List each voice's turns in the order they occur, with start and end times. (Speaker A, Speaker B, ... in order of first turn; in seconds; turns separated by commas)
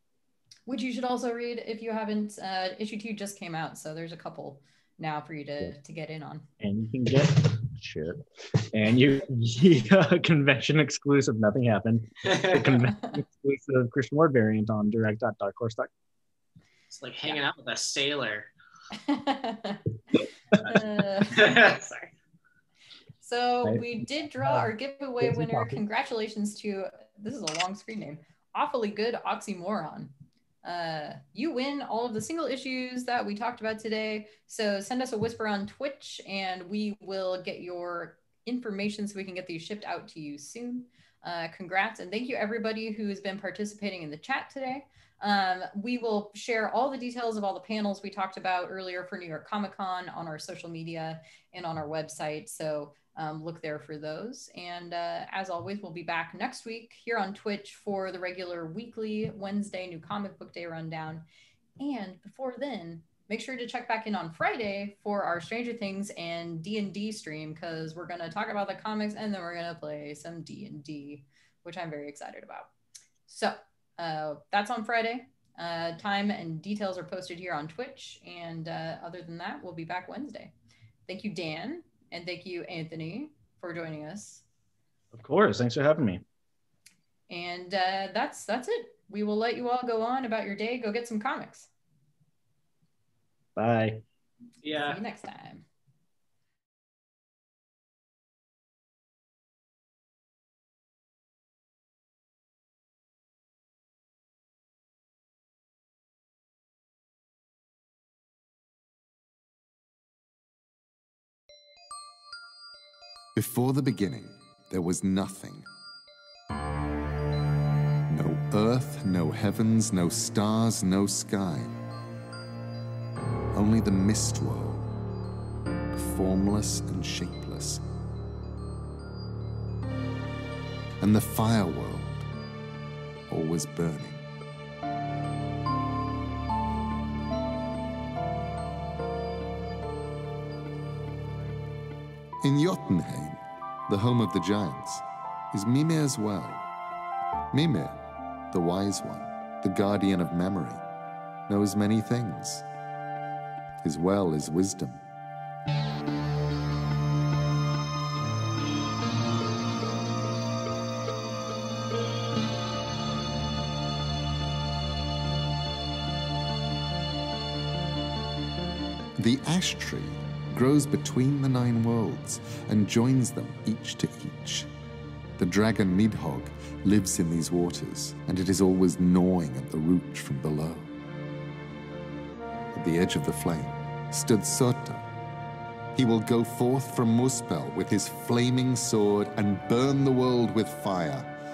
Speaker A: 0.7-6.5, Speaker B: 6.6-15.9, Speaker C: 12.2-12.9, Speaker C: 16.9-18.5, Speaker A: 18.9-19.9, Speaker A: 20.5-21.6, Speaker C: 21.3-22.1, Speaker A: 23.2-30.1, Speaker B: 23.6-25.8, Speaker A: 30.6-61.2, Speaker A: 61.8-72.7, Speaker A: 73.3-80.5, Speaker A: 81.1-84.4, Speaker B: 85.1-86.2, Speaker A: 87.3-91.7, Speaker B: 93.6-94.0, Speaker C: 94.6-95.0, Speaker A: 94.7-95.7, Speaker D: 113.3-115.7, Speaker D: 118.1-121.8, Speaker D: 123.5-124.9, Speaker D: 125.9-127.8, Speaker D: 131.0-132.3, Speaker D: 133.3-134.2, Speaker D: 142.4-146.6, Speaker D: 147.5-150.8, Speaker D: 151.5-152.7, Speaker D: 153.8-155.0, Speaker D: 169.2-174.7, Speaker D: 175.4-180.9, Speaker D: 182.7-185.1, Speaker D: 185.9-191.3